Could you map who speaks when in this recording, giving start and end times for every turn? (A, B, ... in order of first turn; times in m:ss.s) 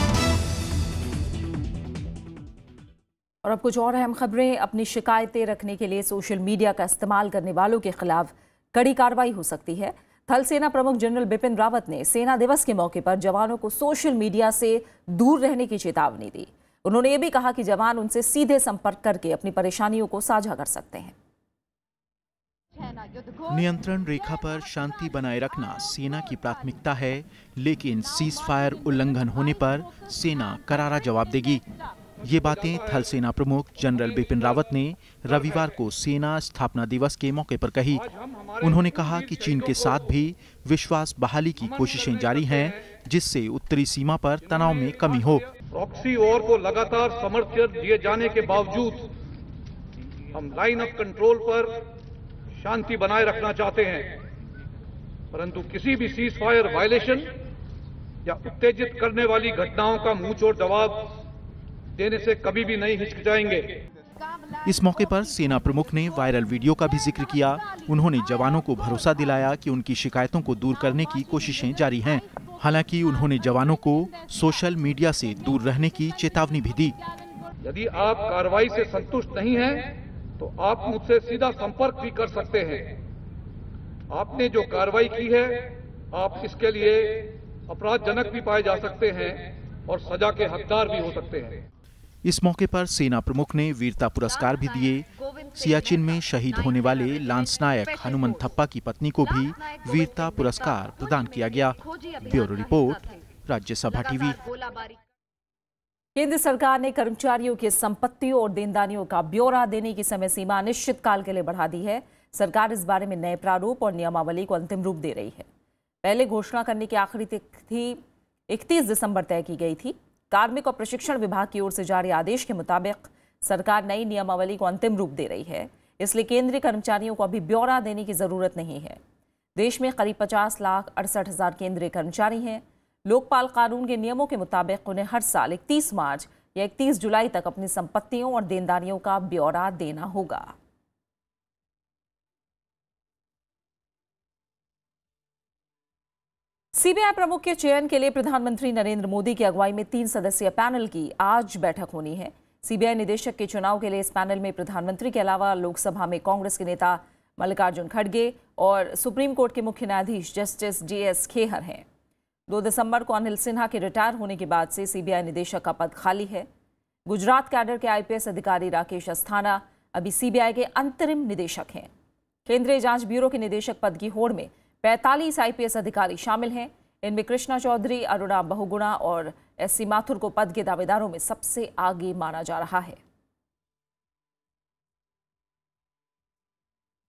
0:03.4-0:21.1 A
0:23.5-0:31.6 B
0:32.2-0:38.1 B
0:38.1-0:38.6 C
0:38.6-0:45.5 B
0:45.7-0:49.1 C
0:50.3-0:51.9 C
0:52.6-0:54.2 C
0:55.3-0:57.4 C
0:58.2-1:01.2 C
1:02.0-1:03.8 C
1:04.6-1:17.0 B
1:17.6-1:23.0 C
1:24.1-1:31.6 C
1:32.2-1:44.4 B
1:46.2-1:55.5 A
1:56.0-2:09.0 A
2:09.6-2:20.5 A
2:26.8-2:41.8 A
2:42.5-2:46.5 A
2:47.1-2:51.9 A
2:52.5-3:03.0 A